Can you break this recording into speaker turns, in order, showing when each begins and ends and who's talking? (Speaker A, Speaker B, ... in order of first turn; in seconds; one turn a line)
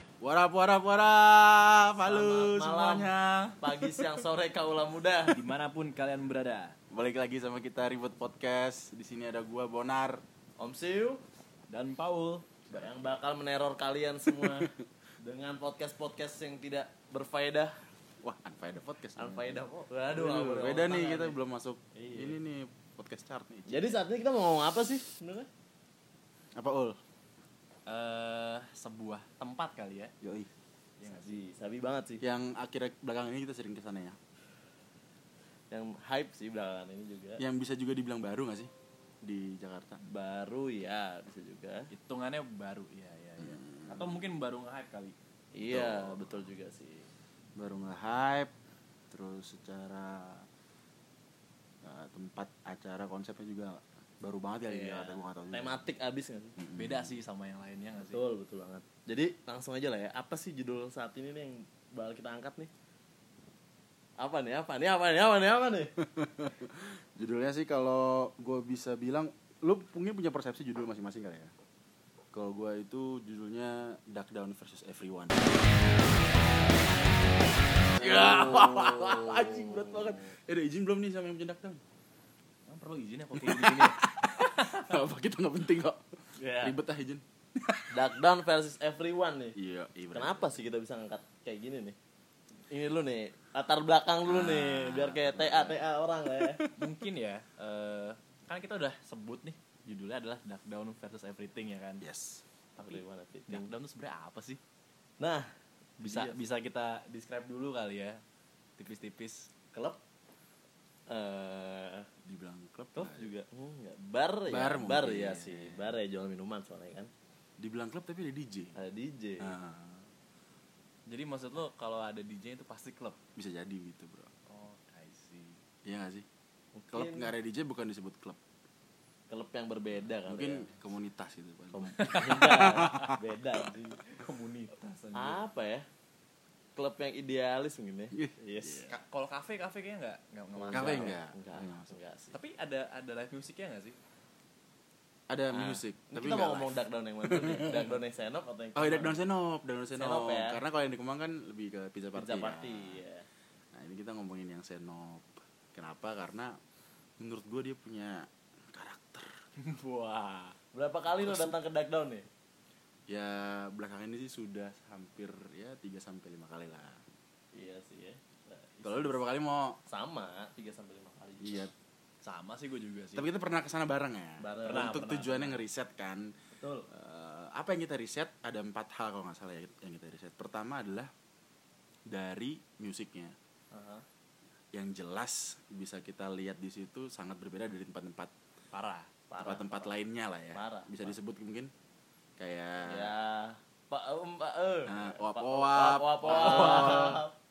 Speaker A: 0.2-3.6
Speaker B: 2.0-5.4
Speaker C: 5.3-6.8
Speaker A: 6.9-10.2
Speaker B: 10.6-11.2
Speaker C: 11.7-12.4
Speaker B: 12.7-17.8
Speaker A: 14.3-14.7
Speaker A: 18.2-23.9
Speaker B: 19.2-21.4
Speaker B: 21.9-22.4
Speaker B: 23.7-25.5
Speaker A: 26.6-27.0
Speaker C: 27.9-30.1
Speaker A: 30.2-30.5
Speaker C: 31.0-31.4
Speaker B: 31.0-32.2
Speaker A: 32.2-34.2
Speaker B: 35.7-37.4
Speaker A: 37.4-38.7
Speaker A: 39.2-40.0
Speaker B: 40.0-41.9
Speaker C: 41.9-45.1
Speaker A: 43.4-44.3
Speaker B: 45.5-47.1
Speaker A: 45.6-46.5
Speaker A: 47.5-48.5
Speaker A: 49.1-50.5
Speaker A: 51.8-55.8
Speaker B: 54.6-56.5
Speaker A: 56.6-57.1
Speaker C: 56.7-58.2
Speaker B: 58.1-62.7
Speaker B: 64.2-65.9
Speaker A: 66.0-71.5
Speaker A: 72.3-75.7
Speaker A: 77.9-81.8
Speaker B: 78.0-80.3
Speaker C: 82.7-84.8
Speaker A: 83.3-86.0
Speaker B: 86.3-86.8
Speaker A: 86.6-88.0
Speaker B: 87.9-89.5
Speaker A: 89.5-90.6
Speaker B: 90.1-92.0
Speaker B: 92.7-96.6
Speaker A: 94.2-95.8
Speaker A: 96.4-96.7
Speaker C: 96.8-102.0
Speaker A: 102.0-102.4
Speaker B: 102.8-103.7
Speaker C: 102.8-104.6
Speaker B: 105.2-106.4
Speaker C: 106.0-108.2
Speaker C: 108.8-109.5
Speaker B: 109.7-110.0
Speaker B: 111.1-112.1
Speaker A: 112.2-113.3
Speaker B: 112.9-117.1
Speaker A: 114.5-115.9
Speaker A: 117.6-118.8
Speaker B: 118.7-119.5
Speaker A: 119.4-120.1
Speaker C: 121.0-123.2
Speaker A: 123.3-124.3
Speaker C: 124.5-125.6
Speaker A: 125.8-126.2
Speaker B: 126.7-127.3
Speaker A: 126.9-128.4
Speaker B: 129.3-130.7
Speaker A: 130.2-133.2
Speaker B: 131.7-134.2
Speaker C: 132.0-132.7
Speaker C: 134.2-135.4
Speaker B: 135.1-135.9
Speaker B: 136.8-138.9
Speaker A: 138.1-138.9
Speaker C: 138.9-141.1
Speaker B: 140.5-142.3
Speaker A: 140.7-141.9
Speaker C: 142.3-143.9
Speaker A: 145.3-147.9
Speaker B: 145.5-149.2
Speaker A: 148.7-153.0
Speaker B: 149.9-150.6
Speaker B: 152.1-153.2
Speaker A: 153.7-156.6
Speaker A: 157.2-159.3
Speaker C: 159.6-160.6
Speaker B: 160.7-162.3
Speaker A: 161.2-161.6
Speaker A: 163.1-167.0
Speaker B: 167.5-169.2
Speaker A: 168.8-169.8
Speaker B: 169.9-171.7
Speaker A: 171.4-171.7
Speaker C: 172.2-173.3
Speaker A: 173.1-176.3
Speaker B: 174.4-174.9
Speaker C: 174.7-175.6
Speaker B: 176.5-176.9
Speaker A: 176.9-181.1
Speaker A: 182.1-183.3
Speaker B: 183.7-184.0
Speaker A: 184.7-188.3
Speaker C: 188.7-189.1
Speaker B: 189.3-189.9
Speaker A: 189.4-191.7
Speaker B: 190.5-191.1
Speaker A: 192.4-193.1
Speaker B: 192.8-197.3
Speaker A: 194.9-197.2
Speaker C: 196.3-197.2